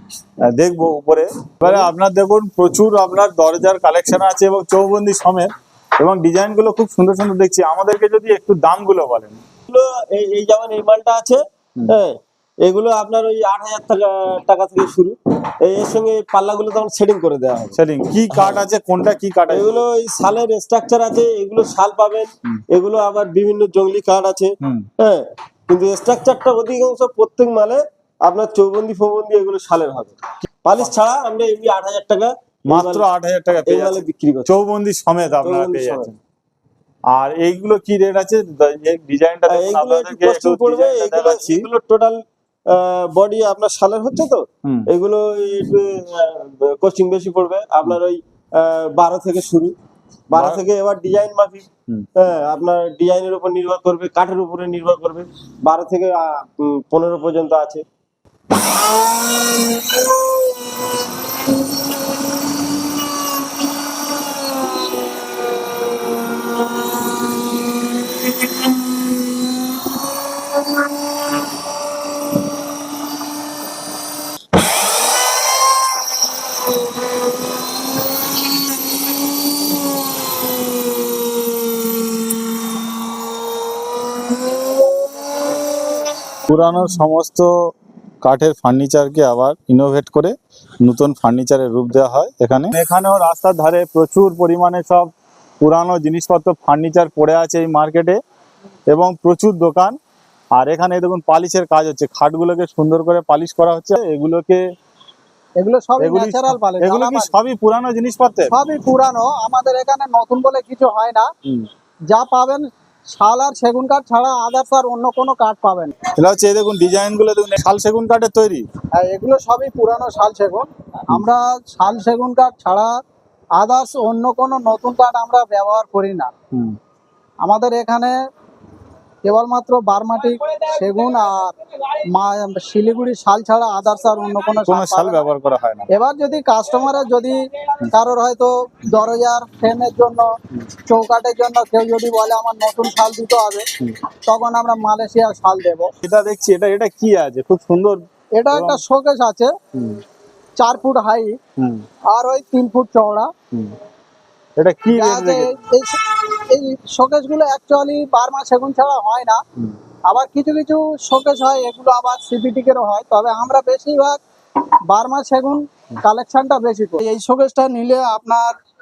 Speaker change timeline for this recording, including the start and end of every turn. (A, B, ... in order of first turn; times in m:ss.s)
0:00.5-0:09.4 A
0:09.7-0:17.8 B
0:17.8-0:19.8 A
0:18.3-0:18.6 B
0:19.5-0:33.0 B
0:24.6-0:24.9 A
0:32.7-0:36.2 A
0:33.6-0:34.5 B
0:35.4-0:36.1 B
0:37.1-0:41.7 A
0:39.5-0:49.7 B
0:50.3-0:51.6 B
0:50.3-0:50.6 A
0:52.2-0:57.8 B
1:26.5-1:27.5 A
1:28.2-1:38.2 A
1:38.9-1:40.0 A
1:40.6-1:44.6 A
1:45.6-1:47.3 C
1:46.0-1:48.5 A
1:48.5-1:51.3 C
1:52.1-1:55.9 C
1:56.1-1:58.6 A
1:58.9-2:02.9 C
2:03.6-2:06.3 C
2:07.4-2:08.1 C
2:09.2-2:11.5 C
2:12.1-2:15.2 C
2:14.6-2:15.9 A
2:15.9-2:17.4 C
2:17.9-2:20.2 C
2:20.9-2:23.7 C
2:24.3-2:25.9 C
2:26.0-2:28.0 A
2:28.4-2:29.5 C
2:28.5-2:28.8 A
2:29.7-2:30.0 A
2:30.6-2:31.4 C
2:31.6-2:31.8 A
2:32.1-2:33.3 C
2:34.6-2:35.5 A
2:34.9-2:39.4 C
2:40.1-2:44.2 C
2:44.9-2:48.5 C